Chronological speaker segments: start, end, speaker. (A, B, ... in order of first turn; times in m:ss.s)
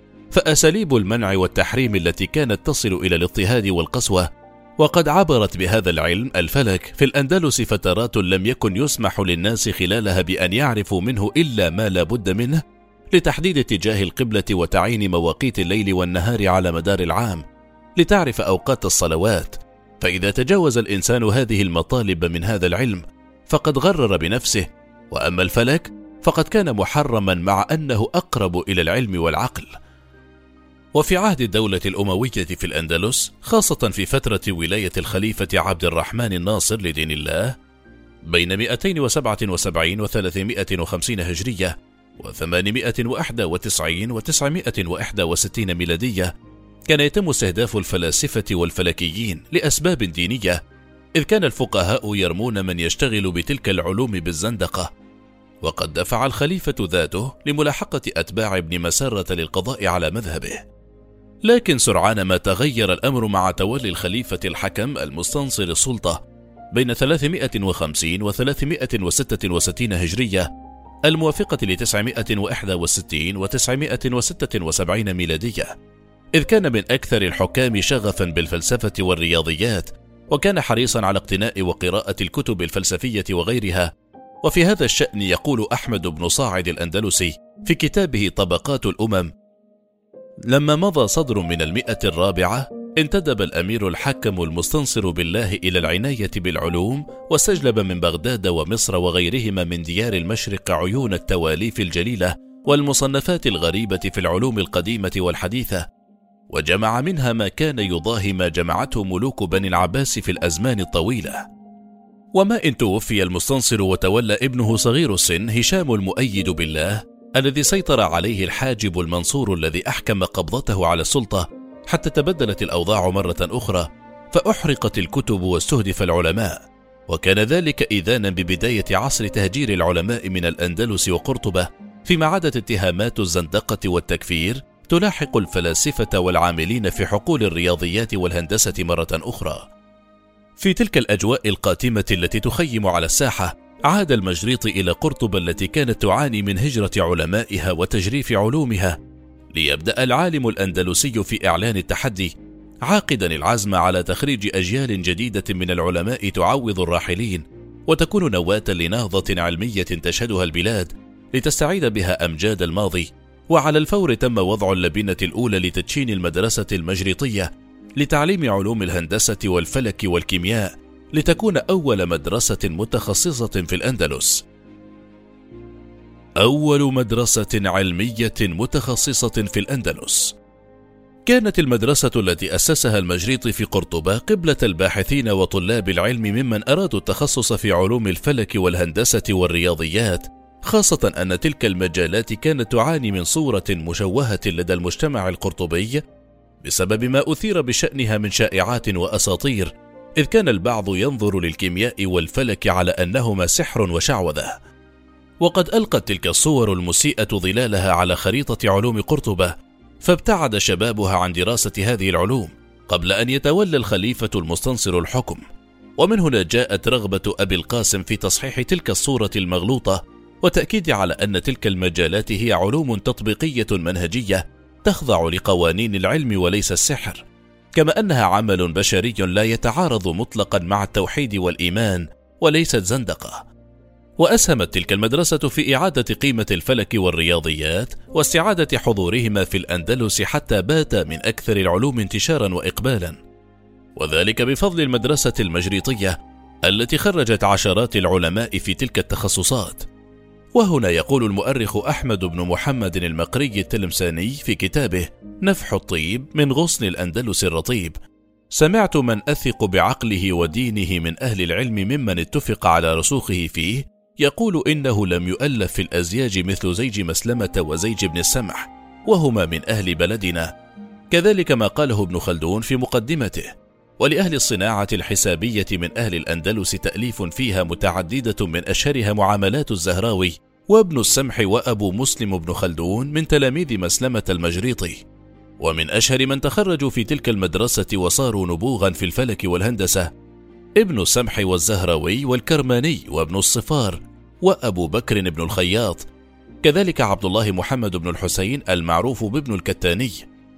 0:00.3-0:17.4 A
0:18.0-0:29.7 A
0:30.9-0:37.5 A
0:38.2-0:46.3 A
0:46.9-0:50.6 A
0:51.2-0:54.9 A
0:55.6-1:00.6 A
1:01.4-1:10.5 A
1:11.1-1:15.8 A
1:16.3-1:23.9 A
1:24.4-1:29.3 A
1:30.5-1:45.9 A
1:46.5-1:51.5 A
1:52.4-2:19.7 A
2:20.6-2:29.0 A
2:29.5-2:32.3 A
2:32.8-2:54.5 A
2:56.4-3:00.4 A
3:01.2-3:16.0 A
3:16.6-3:24.6 A
3:25.4-3:35.4 A
3:36.0-3:53.5 A
3:54.2-4:03.2 A
4:04.0-4:09.9 A
4:10.5-4:18.0 A
4:18.5-4:30.5 A
4:31.1-4:45.0 A
4:45.6-4:50.1 A
4:50.8-4:56.1 A
4:56.6-5:00.3 A